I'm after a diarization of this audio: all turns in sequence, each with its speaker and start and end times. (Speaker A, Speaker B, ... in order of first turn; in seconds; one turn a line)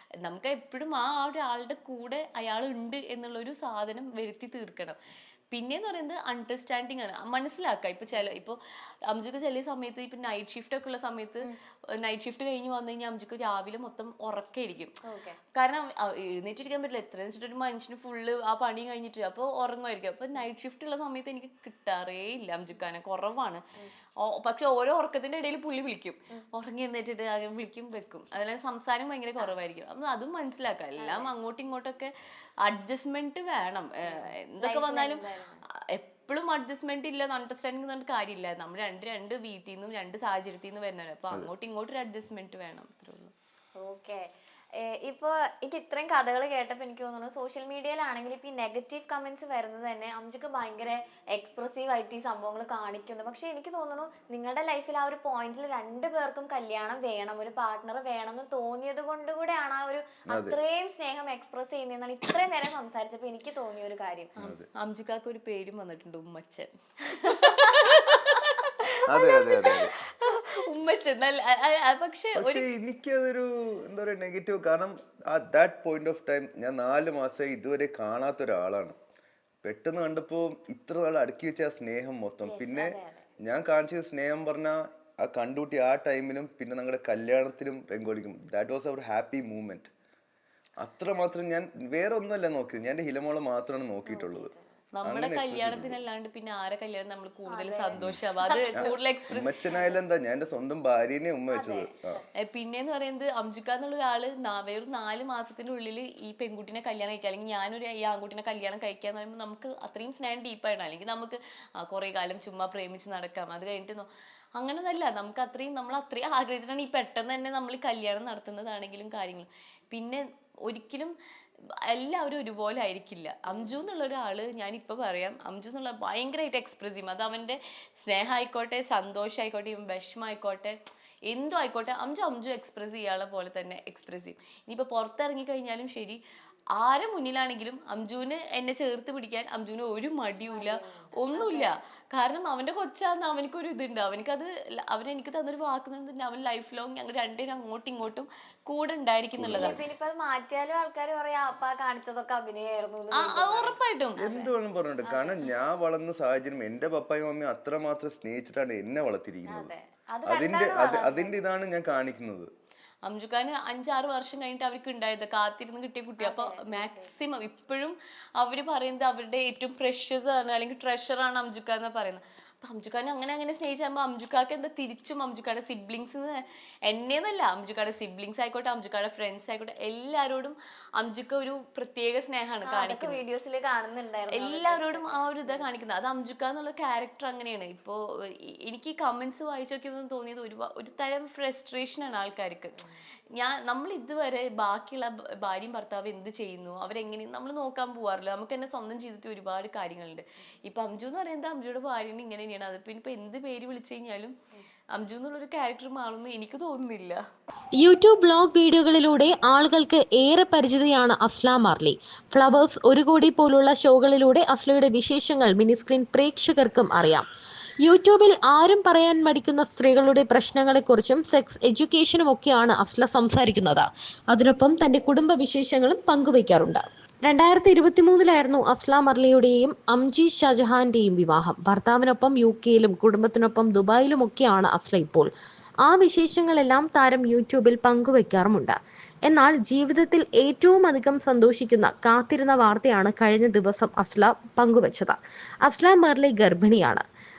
Speaker A: 0.2-5.0
Speaker A: 5.5-15.0
Speaker B: 8.1-8.4
Speaker B: 15.1-15.4
Speaker A: 15.5-23.6
Speaker A: 24.2-32.1
Speaker B: 31.0-31.3
Speaker A: 32.6-35.2
Speaker B: 34.1-35.6
Speaker A: 35.9-43.3
Speaker B: 43.8-44.3
Speaker B: 44.8-64.3
Speaker C: 60.3-60.6
Speaker A: 64.4-72.7
Speaker C: 64.4-64.7
Speaker B: 67.3-67.7
Speaker C: 69.1-70.0
Speaker C: 72.3-79.0
Speaker C: 79.6-89.9
Speaker B: 82.5-83.3
Speaker C: 90.8-94.5
Speaker B: 94.1-94.6
Speaker A: 95.0-99.6
Speaker C: 95.0-96.0
Speaker B: 97.5-99.0
Speaker C: 98.0-98.2
Speaker C: 98.8-102.2
Speaker B: 99.7-100.0
Speaker B: 101.5-102.2
Speaker A: 102.4-121.1
Speaker A: 121.9-130.8
Speaker B: 123.5-123.8
Speaker A: 131.3-136.2
Speaker A: 136.8-149.8
Speaker B: 140.5-141.8
Speaker C: 149.4-149.8
Speaker B: 149.6-154.5
Speaker A: 153.2-154.3
Speaker C: 154.2-159.7
Speaker B: 155.0-155.5
Speaker B: 159.5-161.4
Speaker C: 160.3-162.5
Speaker A: 163.1-183.2
Speaker B: 166.2-167.1
Speaker B: 182.7-185.7
Speaker A: 184.3-204.3
Speaker A: 204.9-207.2
Speaker D: 207.8-217.3
Speaker D: 217.8-235.3
Speaker D: 235.8-247.1